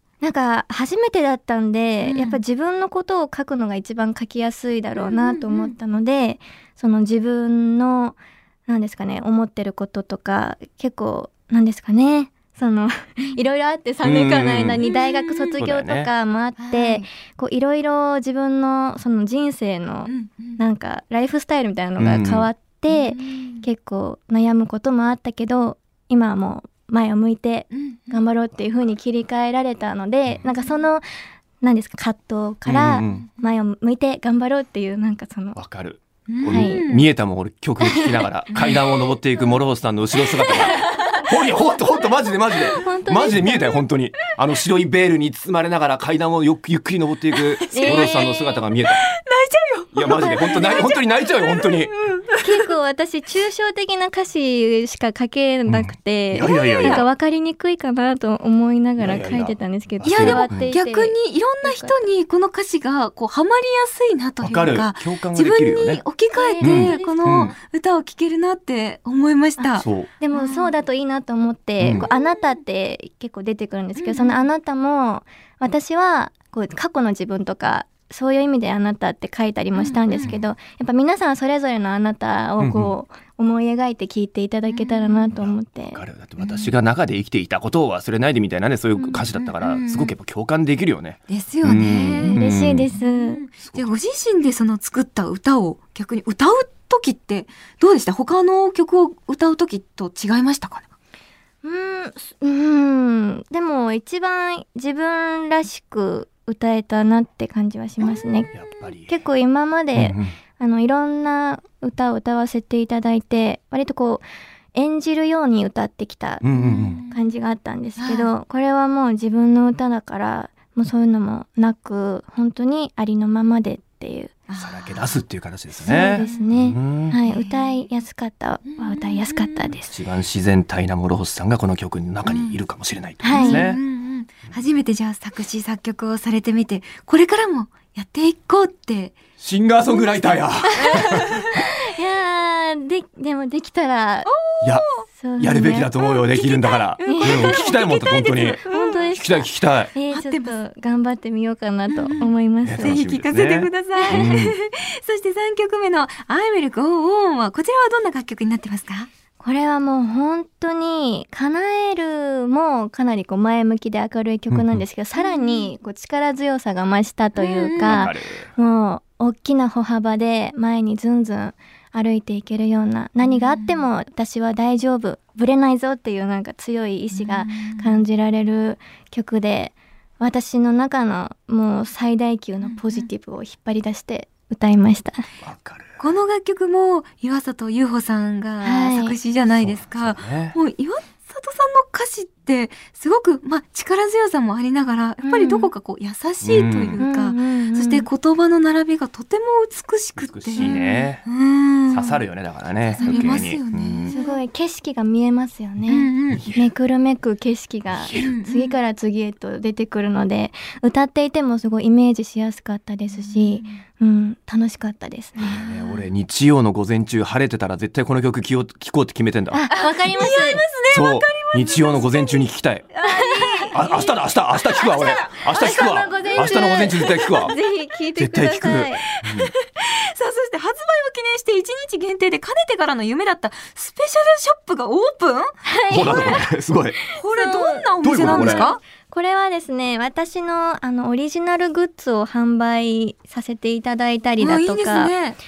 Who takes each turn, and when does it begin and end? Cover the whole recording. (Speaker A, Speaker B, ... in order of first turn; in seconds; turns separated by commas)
Speaker A: 0.2-31.0, Speaker B: 2.0-2.4, Speaker B: 5.0-5.7, Speaker C: 14.0-14.8, Speaker B: 14.8-15.6, Speaker C: 15.6-16.1, Speaker B: 16.6-17.1, Speaker B: 20.1-20.6, Speaker C: 22.0-22.5, Speaker B: 22.9-23.6, Speaker B: 27.7-28.2, Speaker A: 31.6-35.6, Speaker C: 32.6-33.3, Speaker B: 33.0-33.3, Speaker C: 35.5-49.0, Speaker B: 36.3-37.1, Speaker A: 36.5-36.8, Speaker A: 37.8-38.1, Speaker B: 38.5-39.1, Speaker B: 40.4-41.2, Speaker A: 40.7-41.2, Speaker A: 42.5-43.8, Speaker B: 47.3-52.6, Speaker A: 47.7-48.4, Speaker C: 49.9-51.9, Speaker A: 50.1-50.8, Speaker A: 52.4-62.0, Speaker C: 55.7-57.0, Speaker B: 56.4-57.0, Speaker C: 59.0-60.7, Speaker B: 60.0-70.7, Speaker C: 64.4-66.0, Speaker A: 66.3-67.5, Speaker C: 66.6-67.5, Speaker A: 69.6-86.0, Speaker C: 69.8-70.1, Speaker C: 71.8-72.1, Speaker B: 72.0-72.4, Speaker B: 74.0-74.4, Speaker B: 79.7-80.3, Speaker C: 80.2-80.4, Speaker C: 82.6-82.9, Speaker B: 84.7-85.3, Speaker C: 85.4-92.9, Speaker B: 86.4-86.7, Speaker B: 89.0-90.1, Speaker B: 91.3-100.9, Speaker A: 92.3-93.4, Speaker C: 93.6-93.9, Speaker A: 101.6-108.5, Speaker C: 108.5-109.1, Speaker A: 109.1-116.4, Speaker C: 109.9-110.3, Speaker C: 116.4-117.0, Speaker B: 116.5-117.3, Speaker A: 117.0-124.3, Speaker B: 118.0-118.3, Speaker B: 124.5-125.2, Speaker C: 124.6-127.1, Speaker A: 125.8-129.9, Speaker B: 126.1-126.5, Speaker B: 127.2-127.7, Speaker B: 128.6-129.8, Speaker C: 129.9-133.8, Speaker B: 132.2-132.6, Speaker A: 133.2-133.7, Speaker B: 133.3-139.2, Speaker C: 139.4-141.6, Speaker A: 140.8-144.3, Speaker B: 140.8-141.5, Speaker B: 144.2-145.1, Speaker C: 144.6-149.9, Speaker A: 145.2-145.9, Speaker B: 146.0-149.1, Speaker A: 147.0-147.7, Speaker A: 148.3-153.0, Speaker B: 150.1-150.6, Speaker B: 151.9-159.1, Speaker C: 152.1-154.6, Speaker A: 154.0-154.2, Speaker A: 159.4-185.2, Speaker C: 164.5-164.8, Speaker B: 165.2-165.7, Speaker B: 167.4-168.1, Speaker C: 167.8-168.5, Speaker B: 173.2-173.8, Speaker B: 177.1-178.0, Speaker B: 182.6-183.1, Speaker C: 185.4-186.0, Speaker B: 186.0-202.2, Speaker A: 188.6-189.2, Speaker C: 189.5-190.6, Speaker A: 195.2-195.7, Speaker C: 196.4-197.0, Speaker A: 197.0-198.1, Speaker C: 200.2-201.2, Speaker A: 200.6-200.9, Speaker C: 201.9-204.1, Speaker B: 203.0-204.4, Speaker A: 203.0-203.4, Speaker A: 204.1-215.6, Speaker B: 205.9-206.5, Speaker C: 206.3-206.7, Speaker C: 207.9-208.3, Speaker B: 208.1-208.8, Speaker B: 213.1-213.8, Speaker C: 215.4-219.6, Speaker B: 215.4-216.0, Speaker A: 219.5-220.6, Speaker B: 219.7-227.6, Speaker C: 220.9-222.9, Speaker A: 223.0-223.8, Speaker C: 223.7-227.5, Speaker A: 225.5-229.1, Speaker C: 228.2-229.5, Speaker B: 229.2-235.6, Speaker A: 235.7-236.4, Speaker C: 235.9-237.0, Speaker A: 237.1-245.1, Speaker B: 237.1-238.8, Speaker C: 238.0-238.7, Speaker B: 244.4-245.4